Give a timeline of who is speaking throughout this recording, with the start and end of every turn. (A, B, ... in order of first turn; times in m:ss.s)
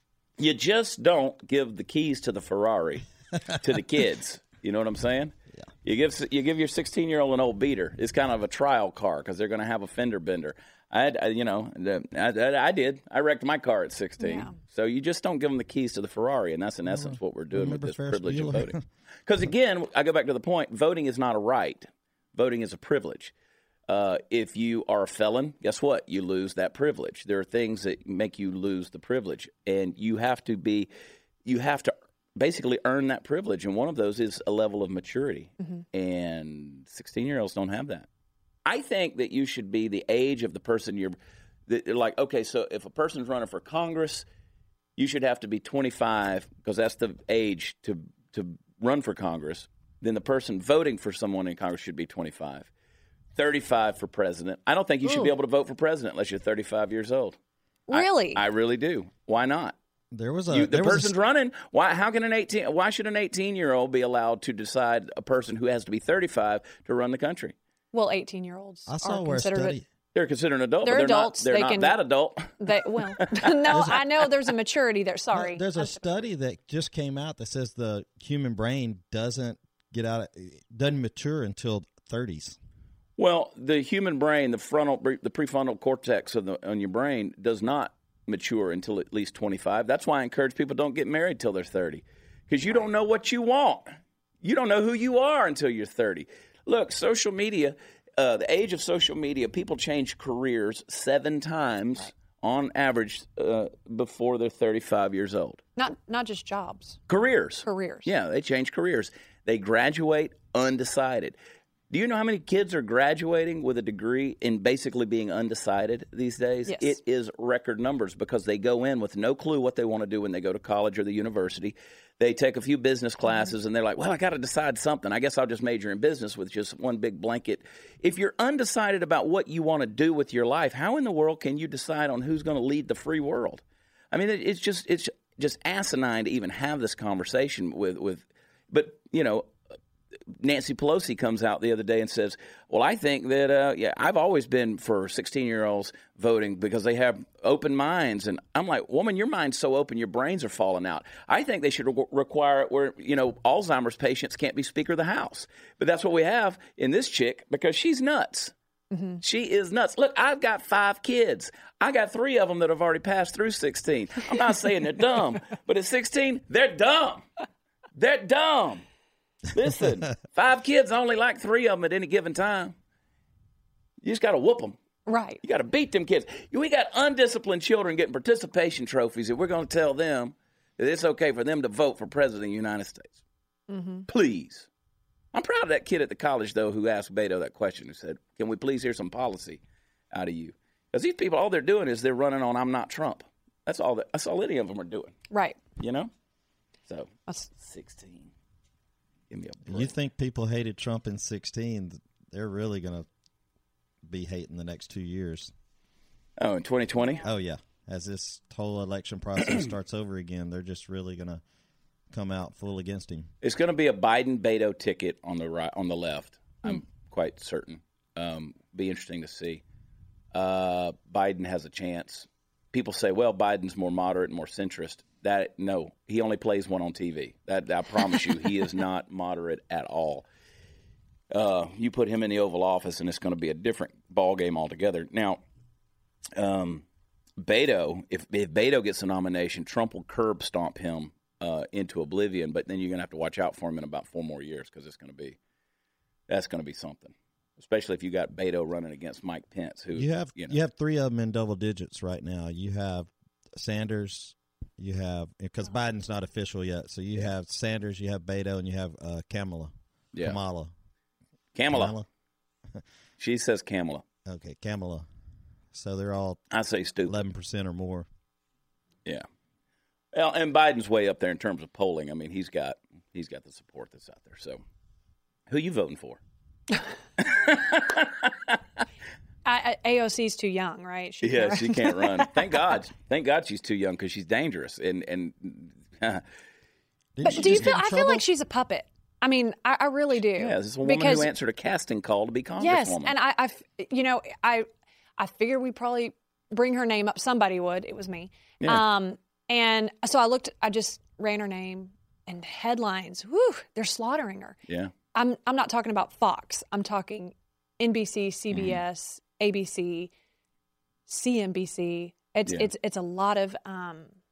0:00.4-0:23.3 A
0:14.2-0:14.5 B
0:16.8-0:18.8 C
0:23.9-0:30.9 A
0:31.4-0:38.1 A
0:38.6-0:41.2 A
0:41.7-0:44.2 A
0:45.0-0:52.7 A
0:53.3-0:57.4 A
0:57.9-0:58.4 B
0:57.9-0:59.8 A
1:00.1-1:01.1 C
1:00.5-1:07.5 A
1:07.9-1:09.8 B
1:08.9-1:09.8 C
1:10.1-1:12.6 A
1:10.8-1:12.0 B
1:12.6-1:16.0 B
1:13.2-1:13.9 A
1:15.3-1:22.6 C
1:23.2-1:33.9 A
1:34.4-1:45.6 A
1:45.8-1:47.0 B
1:47.1-1:51.4 A
1:47.6-1:48.1 B
1:51.9-2:19.5 A
1:56.7-1:57.0 B
2:20.4-2:38.5 A
2:38.9-2:39.2 B
2:39.2-2:47.2 A
2:47.9-2:48.8 A
2:49.5-2:52.7 A
2:54.0-2:54.8 A
2:55.1-2:55.4 B
2:55.4-3:03.2 A
3:03.7-3:04.0 B
3:04.1-3:04.7 A
3:05.3-3:09.6 A
3:10.1-3:15.1 A
3:15.3-3:15.6 B
3:15.8-3:16.1 A
3:16.9-3:18.3 A
3:19.3-3:19.9 A
3:19.6-3:23.1 C
3:24.0-3:25.5 C
3:26.4-3:27.2 A
3:27.2-3:31.4 C
3:32.1-3:33.3 C
3:33.4-3:39.6 A
3:40.3-3:50.2 A
3:51.3-3:55.4 A
3:56.3-3:56.8 A
3:57.4-4:05.4 A
4:06.3-4:10.6 A
4:09.9-4:20.7 C
4:21.5-4:21.9 A
4:21.7-4:22.1 C
4:23.2-4:24.0 A
4:24.2-4:25.0 C
4:25.7-4:26.4 C
4:26.5-4:27.2 A
4:27.0-4:28.1 C
4:30.1-4:34.6 A
4:35.5-4:36.2 A
4:37.2-4:38.6 A
4:39.4-4:42.3 B
4:41.2-4:46.2 A
4:47.2-4:48.2 C
4:47.2-4:51.3 B
4:50.4-4:53.1 A
4:52.6-4:54.7 B
4:55.2-5:04.6 B
5:04.7-5:04.9 A
5:05.1-5:10.1 B
5:08.5-5:08.8 A
5:11.1-5:14.1 B